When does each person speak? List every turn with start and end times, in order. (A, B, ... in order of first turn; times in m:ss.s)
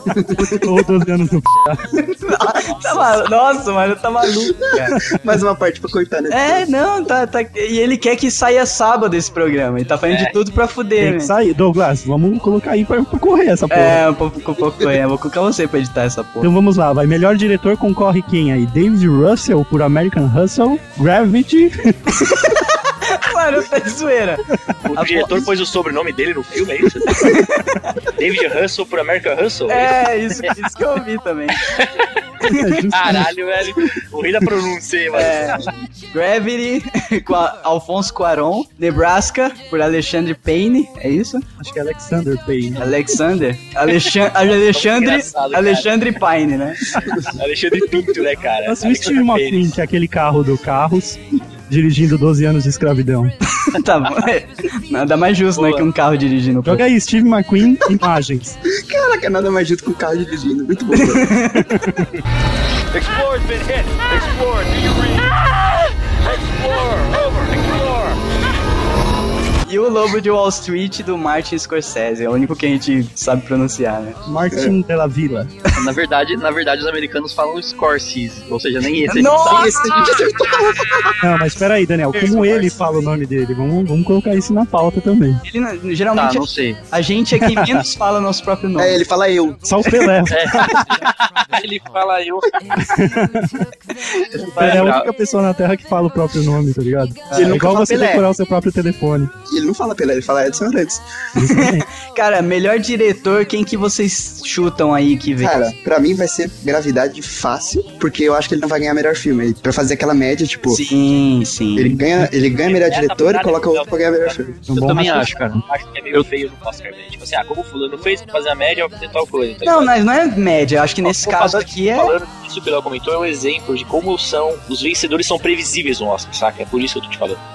0:00.1-0:00.6 A
0:00.4-0:02.0 B
0:02.0-0:05.0 C
0:05.1-0:06.7 A
0:06.3-0:11.3 C
0:10.1-0:10.3 D
0:11.0-0:14.0 B
0:13.7-0:16.5 C
0:16.4-0:22.4 B
0:22.3-0:24.4 C
0:24.8-0:27.3 D
0:25.0-0:25.4 C
0:27.1-0:27.8 C
0:28.1-0:30.0 D
0:29.7-0:31.8 C
0:31.7-0:32.1 D
0:32.4-0:33.2 B
0:32.9-0:35.6 D
0:35.1-0:41.4 C
0:41.6-0:42.9 B
0:42.8-0:46.9 C
0:44.5-0:45.9 D
0:47.2-0:49.7 D
0:48.6-0:53.3 B
0:53.6-0:56.8 C
0:55.5-0:55.8 E
0:56.6-0:58.6 B
0:58.7-1:01.3 A
1:00.9-1:01.8 C
1:01.6-1:02.1 B
1:02.9-1:08.2 F
1:09.7-1:14.2 C
1:14.2-1:15.5 B
1:15.7-1:19.8 E
1:19.1-1:20.1 C
1:19.4-1:21.2 A
1:21.2-1:25.4 B
1:22.2-1:22.7 C
1:25.4-1:29.0 C
1:26.1-1:26.8 E
1:27.4-1:27.8 B
1:28.8-1:29.8 A
1:29.6-1:30.9 B
1:30.3-1:30.8 E
1:31.0-1:32.6 D
1:32.8-1:33.7 B
1:34.4-1:39.3 B
1:34.5-1:35.1 E
1:37.3-1:38.2 A
1:39.4-1:41.0 A
1:41.4-1:41.8 B
1:41.4-1:45.7 C
1:45.4-1:50.8 A
1:50.7-1:52.0 C
1:51.8-1:54.6 A
1:52.6-1:54.4 D
1:54.7-1:55.3 B
1:54.7-1:55.6 E
1:54.9-1:59.9 D
1:59.6-2:02.1 C
2:01.0-2:07.4 D